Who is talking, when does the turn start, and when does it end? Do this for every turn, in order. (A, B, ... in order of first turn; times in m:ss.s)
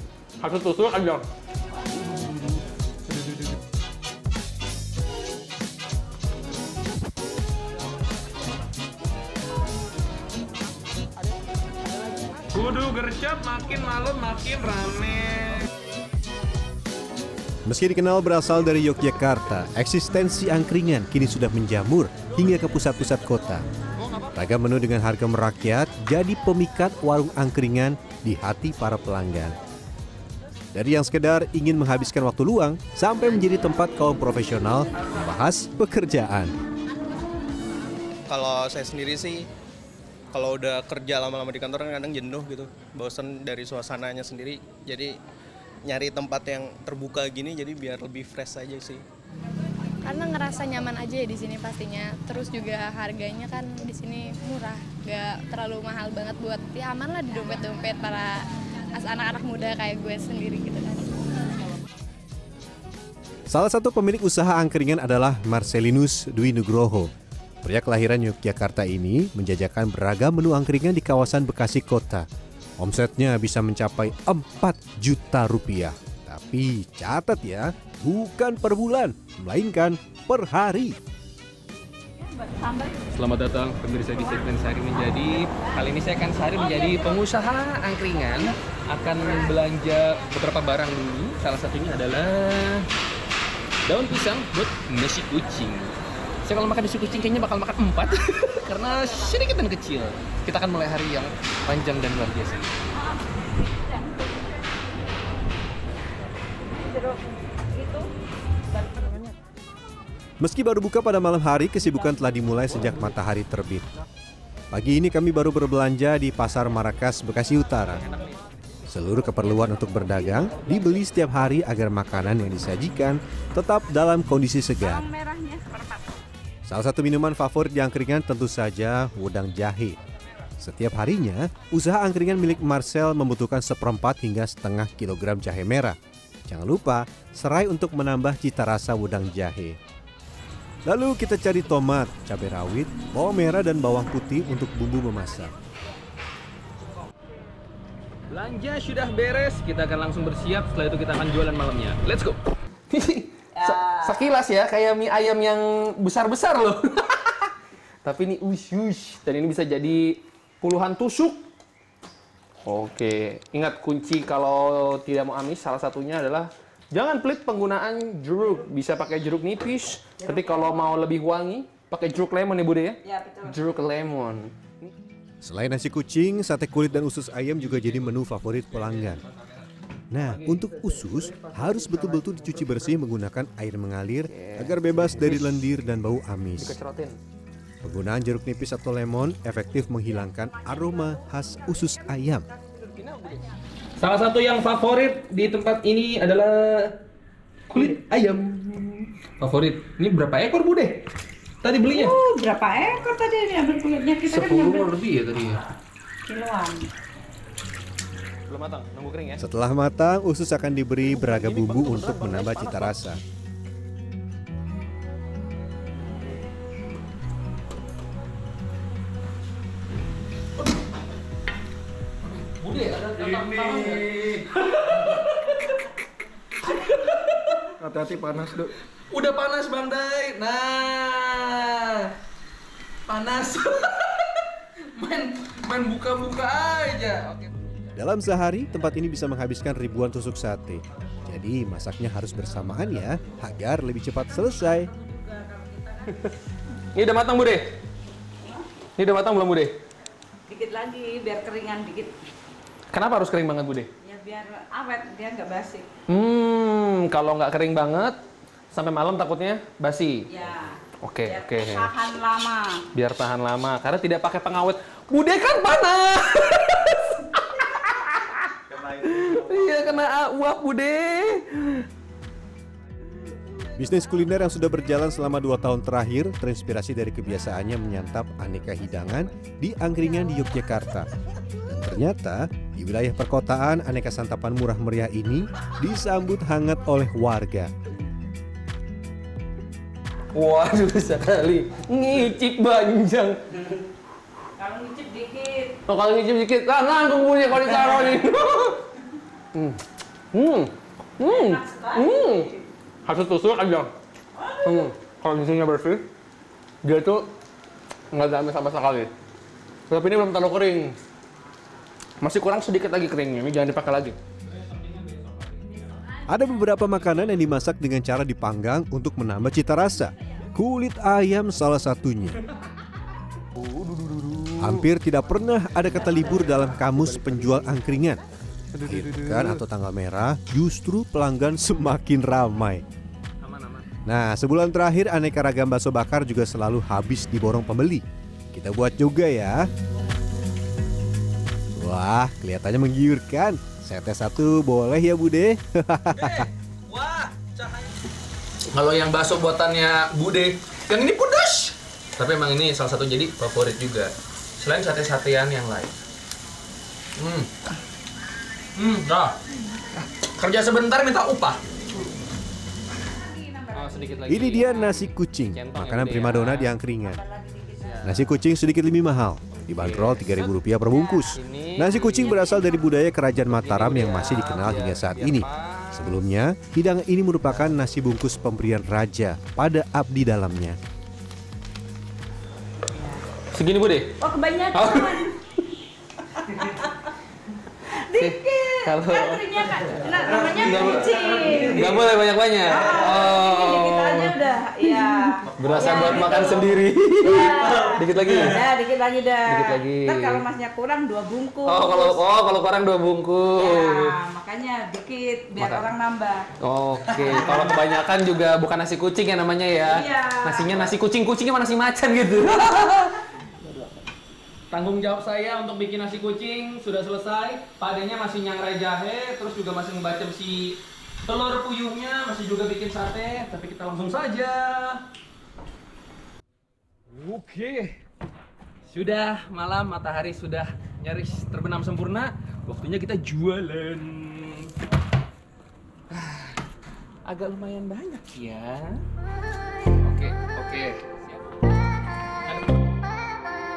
0:00.4-0:01.3 A
0:12.4-0:15.6 A
0:17.7-0:23.6 B
0:24.4-0:29.6 B
0:30.7-0:36.5 B
0:38.3-0:39.4 C
0:40.3-0:45.1 C
0:45.9-0:49.0 C
0:50.0-0:58.4 D
0:58.9-1:01.2 D
1:03.5-1:07.1 B
1:07.6-1:12.3 B
1:12.8-1:21.0 B
1:22.2-1:23.1 E
1:23.1-1:32.9 A
1:26.9-1:27.2 E
1:33.9-1:42.7 A
1:46.8-1:47.2 E
1:47.7-1:48.1 E
1:50.4-1:53.9 B
1:54.7-1:58.0 B
1:58.9-2:05.1 B
2:04.8-2:06.2 E
2:06.7-2:10.0 B
2:10.6-2:16.0 B
2:16.5-2:19.8 B
2:20.9-2:25.6 B
2:28.3-2:41.4 A
2:33.6-2:34.2 E
2:42.6-2:54.9 A
2:53.1-2:53.5 E
2:55.4-2:59.2 B
2:57.6-2:59.6 A
3:00.1-3:06.8 B
3:00.2-3:02.9 A
3:04.2-3:05.7 A
3:06.6-3:07.2 A
3:07.8-3:12.5 B
3:12.8-3:16.9 A
3:17.7-3:21.0 A
3:21.6-3:22.2 A
3:21.9-3:24.9 E
3:24.3-3:25.6 A
3:26.2-3:26.9 E
3:28.5-3:29.4 A
3:29.4-3:33.2 B
3:31.0-3:33.0 A
3:42.2-3:45.6 A
3:46.7-3:52.1 A
3:53.1-3:54.4 A
3:54.9-3:57.6 A
3:58.0-4:04.9 B
4:05.0-4:06.0 E
4:06.0-4:06.3 A
4:06.9-4:07.8 A
4:09.0-4:09.8 A
4:10.5-4:12.2 E
4:12.9-4:13.9 A
4:14.0-4:15.9 E
4:16.1-4:18.2 A
4:18.7-4:20.3 A
4:20.3-4:22.8 E
4:21.0-4:21.9 A
4:22.9-4:31.9 A
4:33.8-4:41.1 B
4:41.7-4:47.7 B
4:50.3-4:53.6 A
4:54.6-4:55.8 E
4:55.9-4:58.8 A
4:59.5-4:59.8 A
5:00.3-5:02.5 A
5:01.2-5:02.6 E
5:03.0-5:03.9 A
5:04.6-5:06.1 A
5:06.8-5:07.3 A
5:08.1-5:09.1 A
5:09.9-5:11.0 A
5:12.2-5:15.9 A
5:16.3-5:22.4 B
5:23.6-5:24.8 A
5:24.6-5:28.2 B
5:26.2-5:27.7 A
5:28.7-5:29.6 A
5:28.9-5:32.8 B
5:33.4-5:33.9 A
5:34.1-5:39.7 B
5:41.8-5:46.5 B
5:46.1-5:47.9 A
5:48.7-5:56.0 A
5:57.2-5:57.5 A
5:58.8-5:59.4 A
6:00.0-6:01.6 A
6:03.2-6:04.3 E
6:03.7-6:06.8 A
6:04.3-6:07.2 B
6:07.1-6:08.0 E
6:07.8-6:08.3 A
6:08.0-6:20.8 B
6:09.6-6:10.5 A
6:10.9-6:11.2 E
6:11.3-6:12.8 A
6:13.4-6:16.2 A
6:23.5-6:25.3 A
6:24.2-6:25.3 E
6:26.4-6:26.7 A
6:28.0-6:38.7 A
6:28.0-6:32.0 E
6:32.7-6:42.2 E
6:39.5-6:40.5 A
6:41.6-6:44.2 A
6:43.6-6:46.5 E
6:45.6-6:45.9 A
6:46.6-6:53.2 A
6:49.8-6:50.9 E
6:54.7-7:05.0 A
7:07.1-7:08.0 A
7:08.9-7:14.7 A
7:16.1-7:16.6 A
7:17.2-7:19.0 A
7:20.0-7:21.2 A